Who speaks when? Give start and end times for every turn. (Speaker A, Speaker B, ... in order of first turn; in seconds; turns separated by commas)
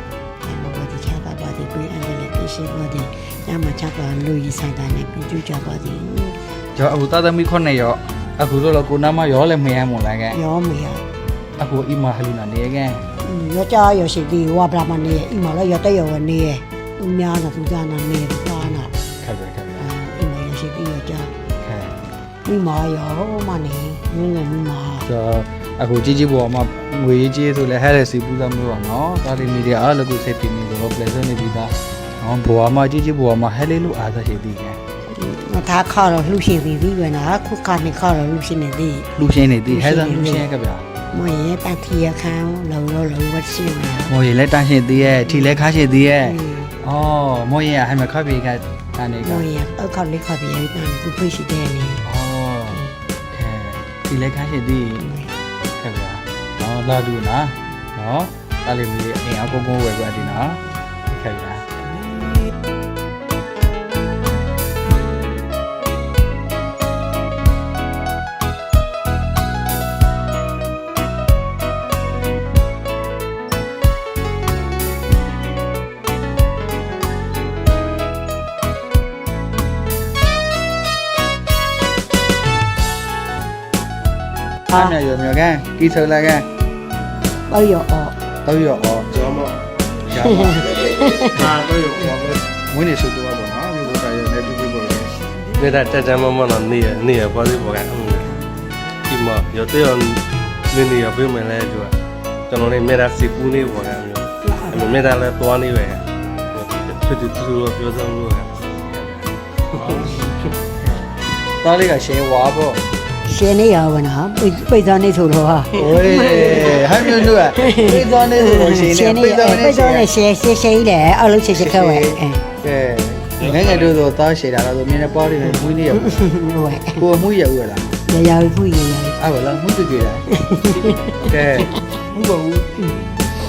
Speaker A: 0.4-6.4, Speaker B: 6.8-10.4, Speaker A: 10.3-11.0, Speaker B: 11.6-13.0, Speaker A: 13.2-18.9, Speaker B: 19.2-19.9, Speaker A: 19.8-21.3, Speaker B: 21.6-21.9, Speaker A: 22.4-25.1, Speaker B: 25.1-34.8, Speaker A: 35.1-39.1, Speaker B: 39.1-40.9, Speaker A: 39.6-40.5, Speaker A: 41.1-44.1, Speaker B: 44.1-49.5, Speaker A: 45.2-45.6, Speaker A: 46.2-46.7, Speaker A: 49.2-52.0, Speaker B: 52.0-55.1, Speaker A: 55.0-55.3, Speaker B: 55.8-61.6, Speaker B: 84.7-86.5, Speaker A: 87.5-88.1, Speaker B: 88.4-89.1, Speaker C: 89.1-89.6, Speaker B: 90.1-90.8, Speaker A: 90.1-91.6, Speaker C: 91.3-92.4, Speaker B: 92.5-95.1, Speaker C: 95.5-98.3, Speaker C: 99.0-101.9, Speaker C: 102.5-109.3, Speaker A: 104.4-105.0, Speaker B: 109.7-110.2, Speaker A: 109.9-110.4, Speaker B: 111.6-112.8, Speaker A: 113.2-122.4, Speaker B: 115.7-120.1, Speaker B: 121.5-126.2, Speaker A: 125.4-127.0, Speaker B: 127.0-127.9, Speaker A: 128.1-129.2, Speaker B: 129.2-130.2, Speaker A: 130.3-131.9, Speaker B: 131.2-132.7